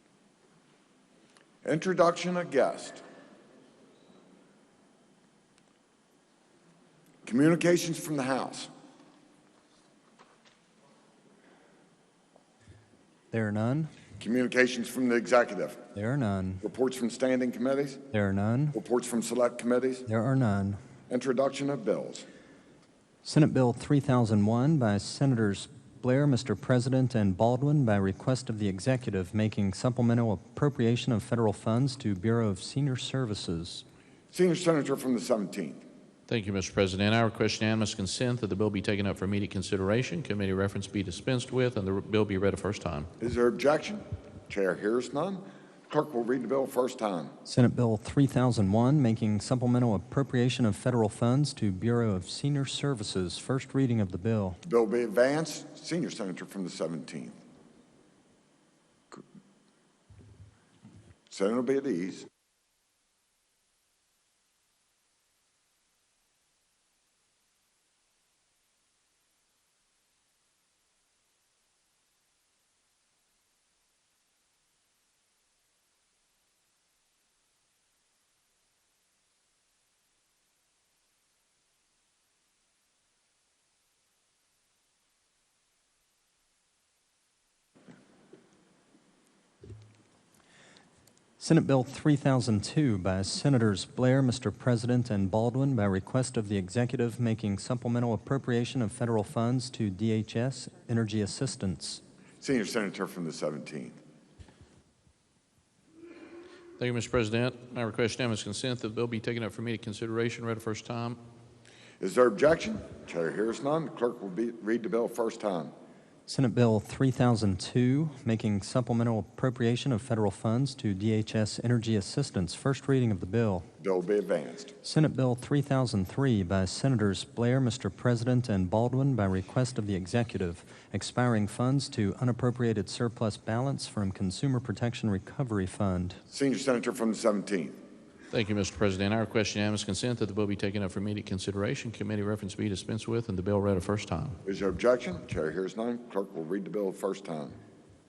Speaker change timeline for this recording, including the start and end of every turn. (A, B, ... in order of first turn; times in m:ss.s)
0:01.6-0:03.0 A
0:07.2-0:08.7 A
0:13.3-0:13.9 B
0:14.2-0:15.8 A
0:16.0-0:16.6 B
0:16.6-0:18.0 A
0:18.1-0:18.8 B
0:18.7-0:20.1 A
0:20.1-0:20.8 B
0:21.1-0:22.3 A
0:23.2-0:33.8 B
0:34.3-0:35.8 A
0:36.3-0:43.1 C
0:43.2-0:47.4 A
0:47.4-0:54.6 B
0:54.6-0:57.4 A
1:01.3-1:02.3 A
1:31.4-1:42.0 B
1:42.4-1:44.0 A
1:46.8-1:51.2 C
1:52.0-1:55.7 A
1:56.3-2:03.7 B
2:03.8-2:04.7 A
2:04.8-2:16.2 B
2:16.3-2:17.8 A
2:18.3-2:24.4 C
2:24.4-2:27.6 A